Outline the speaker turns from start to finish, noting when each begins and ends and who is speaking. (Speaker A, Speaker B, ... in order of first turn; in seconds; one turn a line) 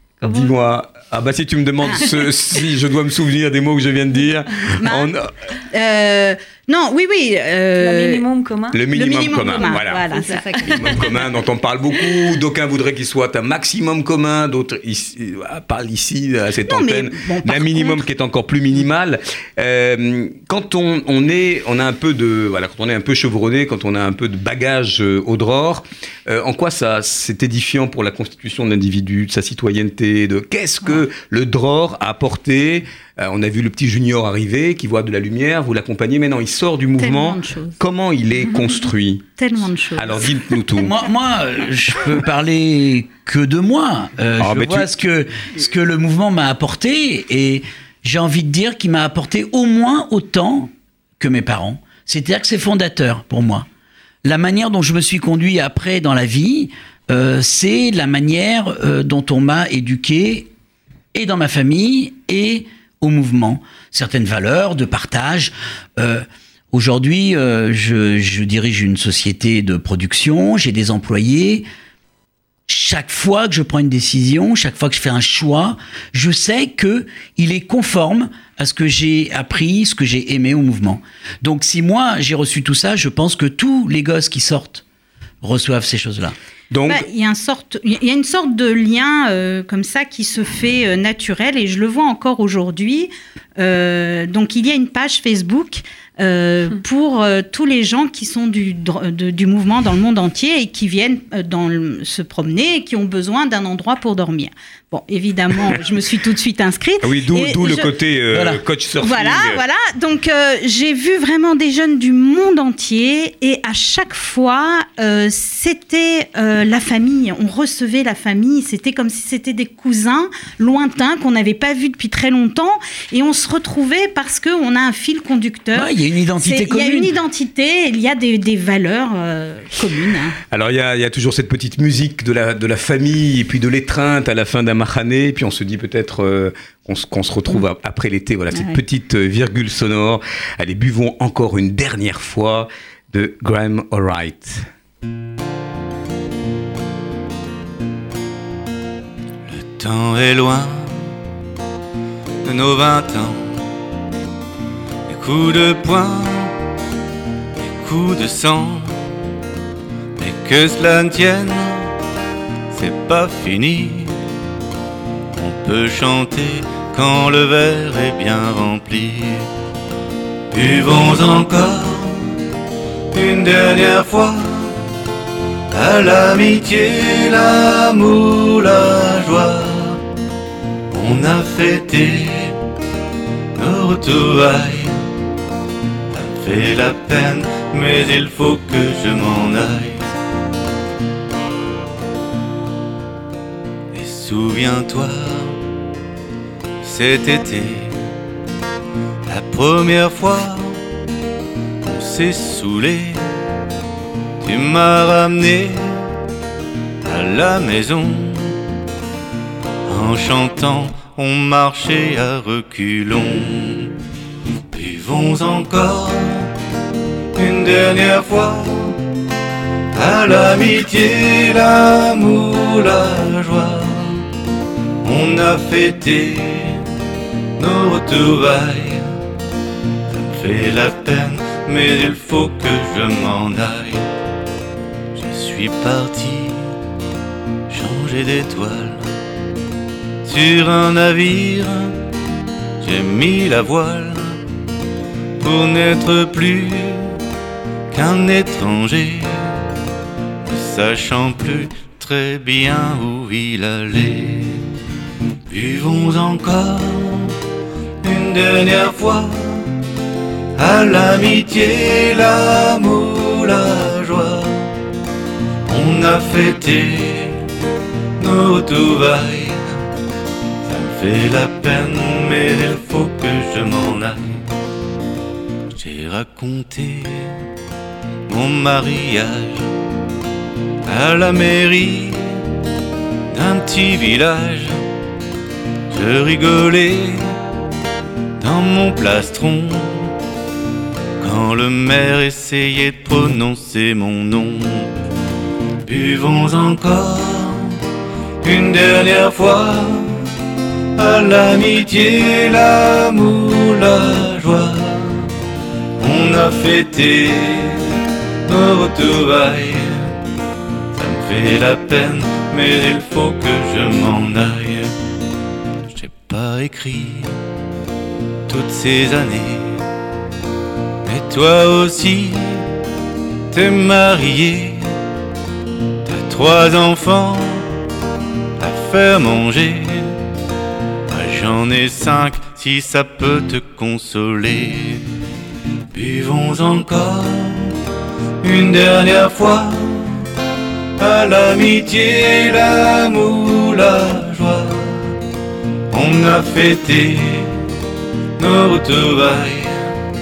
Speaker A: 0.2-0.5
Speaker B: 0.2-5.3
Speaker C: 4.8-5.1
Speaker C: 5.7-8.2
Speaker A: 7.8-11.3
Speaker B: 8.7-10.1
Speaker C: 8.9-11.0
Speaker B: 10.6-39.4
Speaker C: 16.6-18.0
Speaker C: 37.0-37.8
Speaker C: 39.4-40.2
Speaker B: 39.9-40.9
Speaker D: 40.8-53.7
Speaker B: 44.4-44.9
Speaker D: 54.2-60.5
Speaker D: 61.1-71.7
Speaker D: 72.7-84.8
Speaker D: 85.4-86.3
Speaker B: 86.7-87.0
Speaker C: 86.9-107.9
Speaker B: 107.0-109.6
Speaker D: 108.3-108.6
Speaker C: 109.0-130.3
Speaker D: 125.7-127.1
Speaker B: 130.5-144.7
Speaker C: 138.5-138.8
Speaker E: 149.4-151.1
Speaker E: 152.4-153.6
Speaker E: 155.1-156.5
Speaker E: 157.6-158.9
Speaker E: 160.2-161.9
Speaker E: 162.7-164.2
Speaker E: 165.3-169.5
Speaker E: 170.5-172.3
Speaker E: 173.1-174.7
Speaker E: 175.7-180.0
Speaker E: 180.9-182.6
Speaker E: 183.5-185.0
Speaker E: 186.1-190.1
Speaker E: 193.9-195.6
Speaker E: 196.8-198.0
Speaker E: 199.3-200.8
Speaker E: 201.8-203.2
Speaker E: 204.4-206.0
Speaker E: 207.0-208.6
Speaker E: 209.8-213.9
Speaker E: 214.7-216.5
Speaker E: 217.3-219.0
Speaker E: 219.9-224.2
Speaker E: 225.0-226.8
Speaker E: 227.6-229.1
Speaker E: 230.1-234.0
Speaker E: 235.1-236.7
Speaker E: 237.7-239.1
Speaker E: 240.2-241.9
Speaker E: 242.8-244.4
Speaker E: 245.4-247.1
Speaker E: 247.9-249.5
Speaker E: 250.4-254.6
Speaker E: 255.5-257.3
Speaker E: 258.0-259.7
Speaker E: 260.6-264.7
Speaker E: 265.6-267.4
Speaker E: 268.2-269.6
Speaker E: 270.6-274.4
Speaker E: 275.7-277.3
Speaker E: 278.3-279.7
Speaker E: 280.9-282.4
Speaker E: 283.3-284.8
Speaker E: 285.9-287.2
Speaker E: 288.4-290.1
Speaker E: 291.2-294.9
Speaker E: 295.8-297.7
Speaker E: 298.4-300.1
Speaker E: 300.9-305.2
Speaker E: 306.0-307.8
Speaker E: 308.5-310.1
Speaker E: 310.9-314.9
Speaker E: 315.9-317.3
Speaker E: 318.5-319.8
Speaker E: 321.0-322.6
Speaker E: 323.5-324.9
Speaker E: 326.0-327.6
Speaker E: 328.6-330.1
Speaker E: 331.1-335.0
Speaker E: 335.9-337.7
Speaker E: 338.4-340.2
Speaker E: 341.0-345.1
Speaker E: 345.9-347.5
Speaker E: 348.4-349.8